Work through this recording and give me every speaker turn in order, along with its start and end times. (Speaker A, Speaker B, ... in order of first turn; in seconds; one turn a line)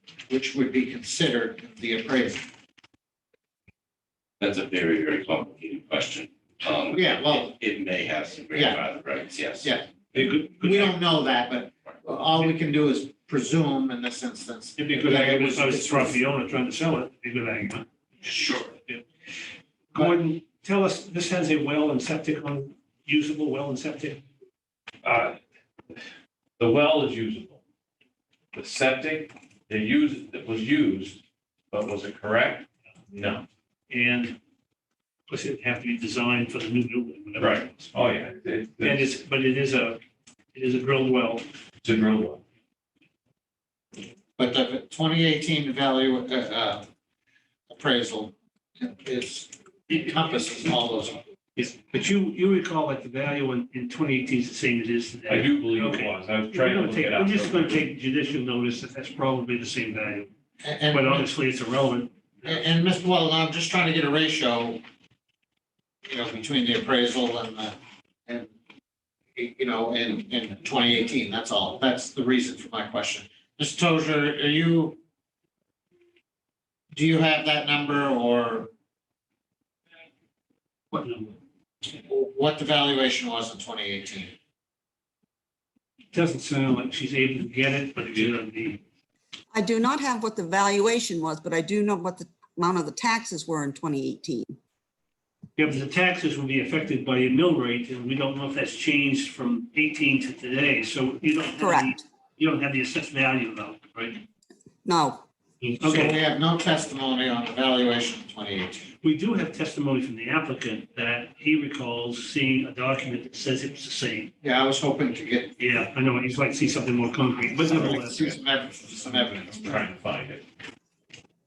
Speaker A: 0.3-2.4
Speaker B: 4.4-9.8
Speaker A: 6.9-7.5
Speaker A: 8.5-8.8
Speaker A: 9.6-9.9
Speaker C: 10.2-11.0
Speaker A: 10.4-16.2
Speaker C: 14.8-17.9
Speaker B: 18.3-18.7
Speaker C: 19.9-24.2
Speaker D: 25.0-25.4
Speaker D: 26.6-27.6
Speaker D: 28.5-31.2
Speaker D: 31.7-33.5
Speaker C: 33.9-34.4
Speaker C: 35.3-37.9
Speaker D: 37.4-39.2
Speaker C: 38.8-40.0
Speaker C: 40.5-41.5
Speaker D: 41.8-42.4
Speaker A: 44.4-46.9
Speaker A: 47.7-51.2
Speaker C: 51.6-60.3
Speaker D: 55.3-57.9
Speaker A: 60.6-61.3
Speaker C: 60.9-62.7
Speaker A: 62.5-64.8
Speaker A: 66.0-68.5
Speaker A: 69.4-75.0
Speaker A: 76.9-78.7
Speaker C: 80.9-81.4
Speaker A: 82.1-84.3
Speaker C: 86.1-88.8
Speaker E: 89.5-94.6
Speaker C: 95.6-104.2
Speaker E: 101.5-102.0
Speaker E: 104.9-105.2
Speaker C: 105.6-106.2
Speaker A: 105.8-108.9
Speaker C: 109.0-114.3
Speaker A: 114.4-115.6
Speaker C: 115.6-118.3
Speaker A: 117.7-119.8
Speaker D: 119.6-120.4